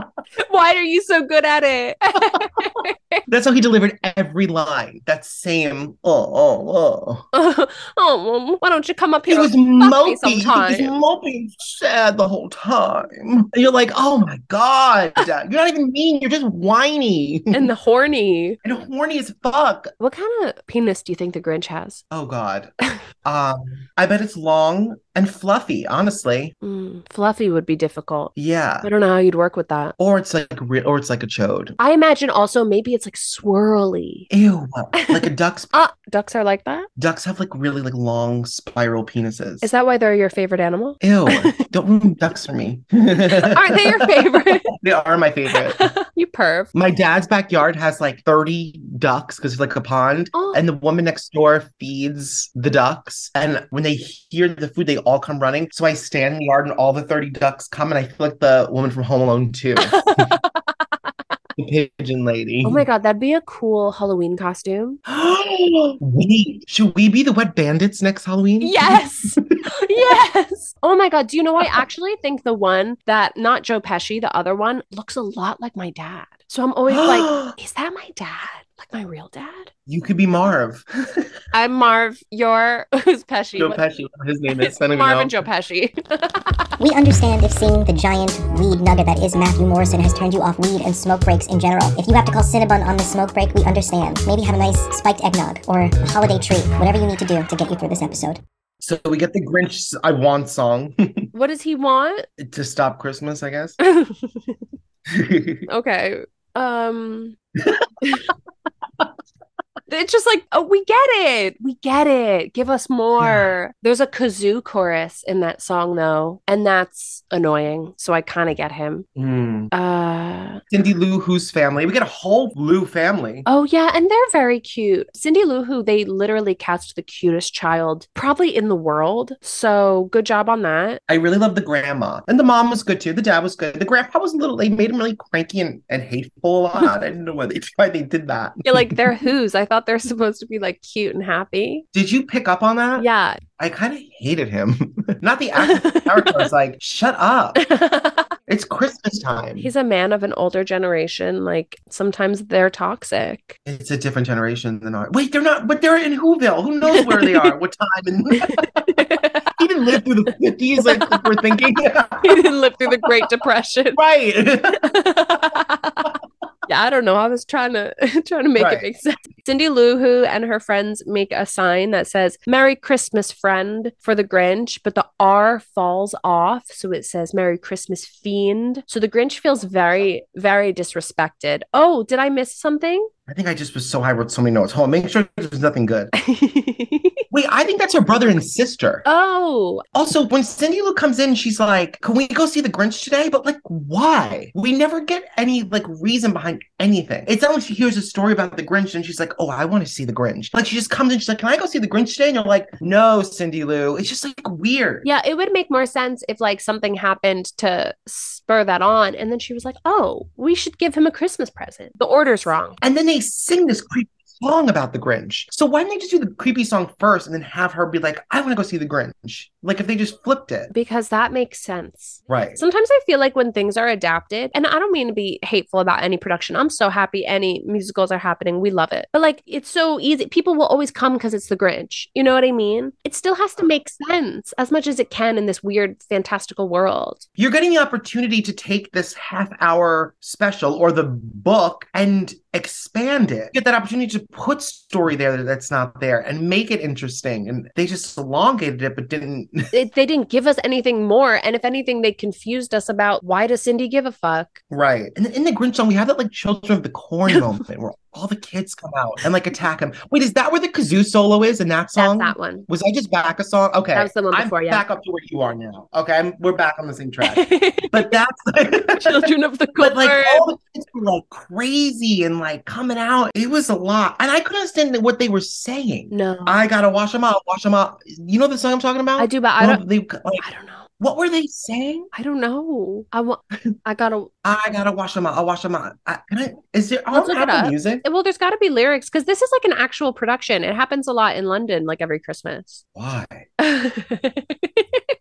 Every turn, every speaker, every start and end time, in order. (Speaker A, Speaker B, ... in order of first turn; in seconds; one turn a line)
Speaker A: 0.4-3.2
Speaker B: 2.3-2.7
Speaker B: 3.3-7.3
Speaker A: 7.3-10.9
Speaker B: 9.3-17.7
Speaker A: 17.5-18.6
Speaker B: 18.6-19.9
Speaker A: 20.0-22.0
Speaker B: 22.1-22.7
Speaker B: 23.2-26.6
Speaker A: 26.6-29.9
Speaker B: 28.4-28.9
Speaker B: 30.0-31.8
Speaker A: 31.8-34.3
Speaker B: 34.3-35.7
Speaker A: 34.9-36.9
Speaker B: 37.0-39.7
Speaker A: 39.6-41.6
Speaker B: 41.0-45.9
Speaker A: 43.3-44.7
Speaker A: 45.6-46.7
Speaker B: 46.7-60.4
Speaker A: 50.3-50.6
Speaker A: 59.8-60.4
Speaker B: 61.6-62.9
Speaker A: 62.6-65.0
Speaker B: 65.1-69.0
Speaker A: 68.6-79.7
Speaker B: 76.9-77.5
Speaker B: 79.9-81.3
Speaker A: 81.5-83.8
Speaker B: 83.6-85.4
Speaker A: 84.5-86.5
Speaker C: 86.8-98.4
Speaker B: 98.8-101.3
Speaker A: 101.3-102.3
Speaker B: 102.4-103.8
Speaker A: 103.8-104.5
Speaker B: 105.1-105.7
Speaker A: 105.7-107.4
Speaker B: 107.6-107.9
Speaker A: 108.0-108.3
Speaker A: 109.9-119.1
Speaker B: 113.2-113.5
Speaker B: 119.2-119.7
Speaker A: 119.7-120.6
Speaker B: 120.7-123.5
Speaker A: 123.5-131.0
Speaker B: 131.1-139.0
Speaker A: 138.7-141.8
Speaker B: 141.9-143.1
Speaker A: 143.0-143.4
Speaker B: 143.6-147.6
Speaker A: 145.6-146.5
Speaker A: 147.6-148.3
Speaker B: 148.5-149.7
Speaker A: 149.6-153.6
Speaker B: 153.7-159.0
Speaker A: 156.9-157.5
Speaker A: 158.4-159.5
Speaker B: 159.6-163.3
Speaker A: 160.8-161.3
Speaker A: 162.2-164.0
Speaker B: 163.9-164.9
Speaker A: 164.8-166.1
Speaker A: 166.7-183.1
Speaker B: 168.6-168.9
Speaker B: 183.3-186.1
Speaker A: 186.2-187.2
Speaker B: 187.3-189.1
Speaker A: 189.1-189.8
Speaker B: 189.9-205.1
Speaker A: 205.0-212.8
Speaker B: 212.8-220.7
Speaker A: 220.7-237.2
Speaker B: 222.3-222.6
Speaker B: 237.4-249.7
Speaker A: 249.7-254.6
Speaker B: 254.7-280.4
Speaker A: 262.0-262.7
Speaker A: 263.9-264.9
Speaker A: 267.2-268.1
Speaker A: 269.0-270.5
Speaker A: 276.1-276.6
Speaker A: 279.2-279.8
Speaker A: 280.4-280.9
Speaker B: 281.0-282.1
Speaker A: 282.1-284.3
Speaker B: 284.4-288.0
Speaker A: 287.1-292.8
Speaker B: 292.9-293.5
Speaker A: 293.6-295.0